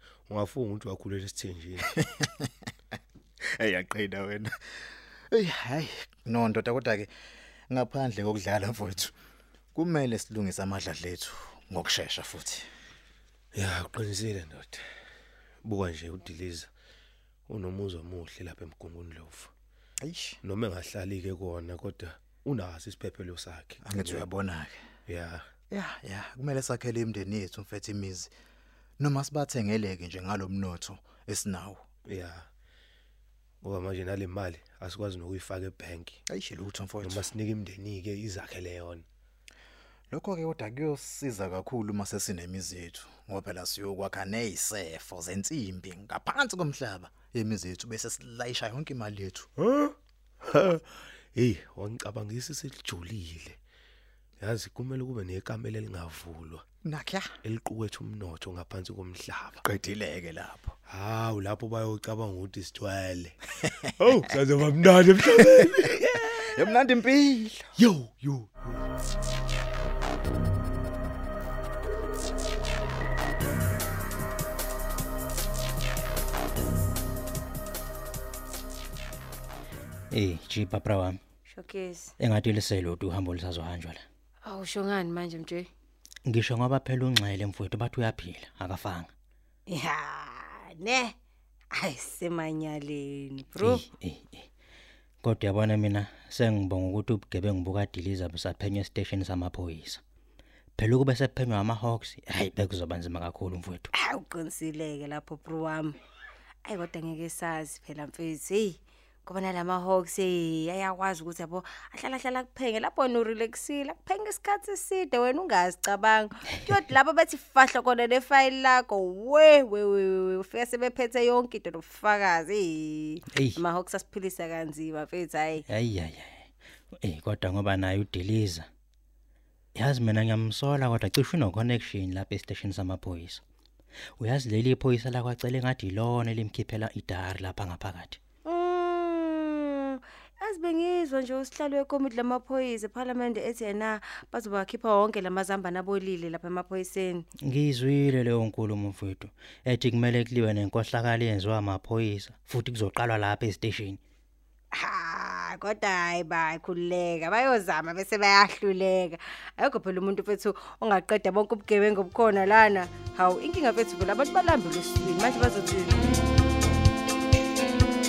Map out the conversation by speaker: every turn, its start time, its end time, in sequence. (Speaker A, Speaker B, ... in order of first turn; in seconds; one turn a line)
Speaker A: 0.3-2.0
Speaker B: 2.0-2.4
Speaker B: 3.6-4.5
Speaker B: 5.3-7.1
Speaker B: 7.7-9.1
Speaker B: 9.8-12.6
Speaker A: 13.5-14.8
Speaker A: 15.6-16.7
Speaker A: 17.5-19.5
Speaker B: 20.0-20.4
Speaker A: 20.4-24.3
Speaker B: 23.8-24.8
Speaker A: 25.1-25.5
Speaker B: 25.7-28.3
Speaker B: 29.0-31.8
Speaker A: 32.1-32.5
Speaker A: 33.6-36.2
Speaker B: 36.3-37.3
Speaker A: 37.0-39.0
Speaker B: 40.1-49.5
Speaker A: 49.6-53.6
Speaker A: 54.4-56.6
Speaker B: 56.8-57.3
Speaker A: 57.4-59.6
Speaker B: 59.6-60.7
Speaker A: 60.9-63.4
Speaker A: 64.0-66.6
Speaker B: 66.2-67.7
Speaker A: 67.8-68.8
Speaker C: 80.1-81.2
Speaker D: 81.5-82.1
Speaker C: 82.2-84.0
Speaker D: 84.5-85.7
Speaker C: 86.3-89.1
Speaker D: 89.7-91.1
Speaker D: 91.8-93.8
Speaker C: 93.6-94.5
Speaker C: 95.2-100.0
Speaker C: 100.8-103.9
Speaker D: 104.0-106.0
Speaker D: 106.6-125.6
Speaker C: 123.3-123.6
Speaker C: 125.7-126.5
Speaker C: 127.0-128.7
Speaker C: 129.8-133.4
Speaker C: 134.2-138.2
Speaker D: 138.4-147.2
Speaker C: 147.5-154.0
Speaker D: 154.7-166.1